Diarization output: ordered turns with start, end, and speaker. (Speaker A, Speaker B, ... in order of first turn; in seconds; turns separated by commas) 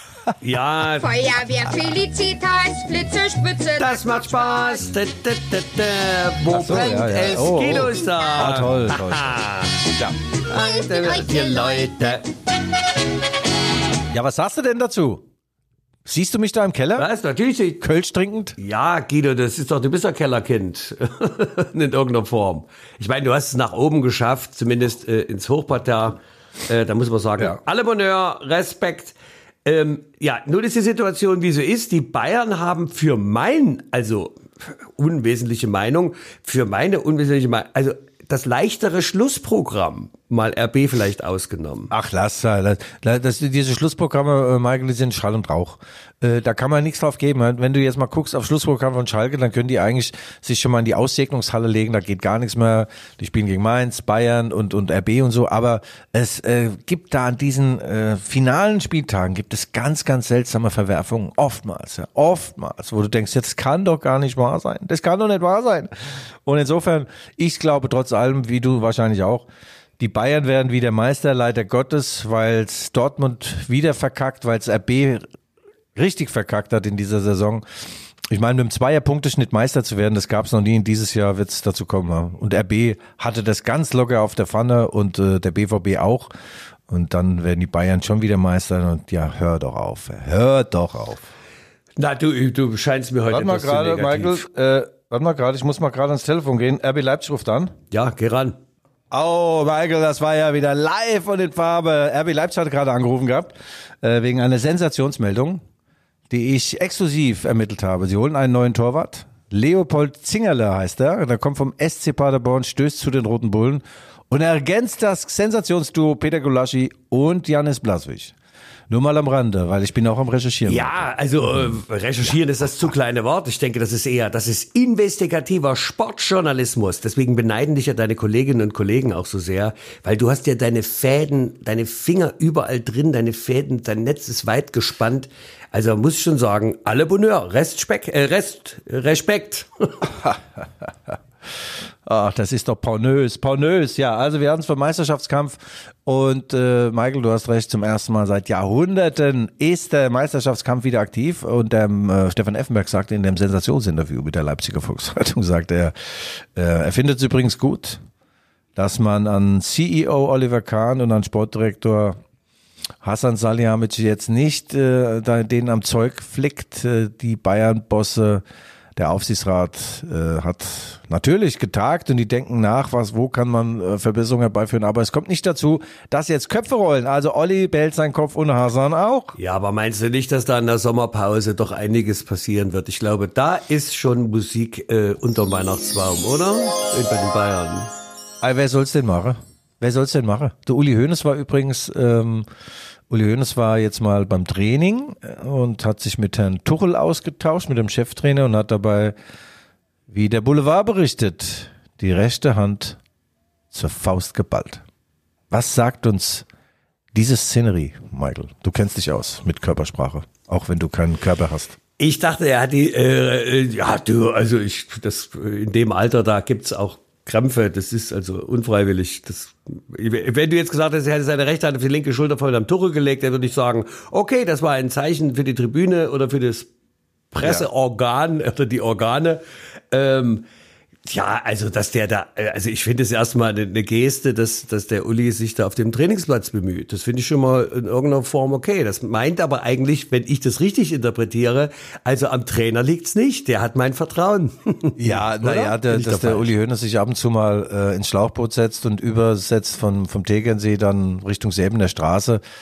Speaker A: 0.4-1.1, Speaker B: 1.0-4.9, Speaker A: 3.8-9.8, Speaker C: 6.5-9.3, Speaker A: 10.5-12.2, Speaker B: 10.5-12.2, Speaker C: 14.1-15.2, Speaker C: 16.1-17.1, Speaker A: 17.0-17.8, Speaker C: 17.8-18.6, Speaker A: 18.6-41.9, Speaker C: 41.9-65.9, Speaker C: 66.4-69.5, Speaker C: 70.0-75.3, Speaker C: 75.9-77.7, Speaker C: 78.3-86.3, Speaker C: 86.9-91.3, Speaker A: 92.0-94.4, Speaker C: 93.3-97.7, Speaker A: 97.9-98.6, Speaker C: 99.1-105.6, Speaker C: 106.3-118.3, Speaker C: 118.9-121.1, Speaker A: 120.7-140.1, Speaker C: 140.1-141.2, Speaker C: 142.0-158.0, Speaker C: 158.8-162.2, Speaker C: 163.0-168.4, Speaker C: 168.9-179.3, Speaker A: 179.4-187.9, Speaker C: 188.4-192.5, Speaker C: 193.1-199.1, Speaker C: 200.1-203.0, Speaker C: 203.7-204.8, Speaker C: 205.5-206.4, Speaker C: 207.1-211.8, Speaker A: 212.0-226.7, Speaker A: 227.3-230.4, Speaker A: 231.1-246.5, Speaker C: 245.0-252.4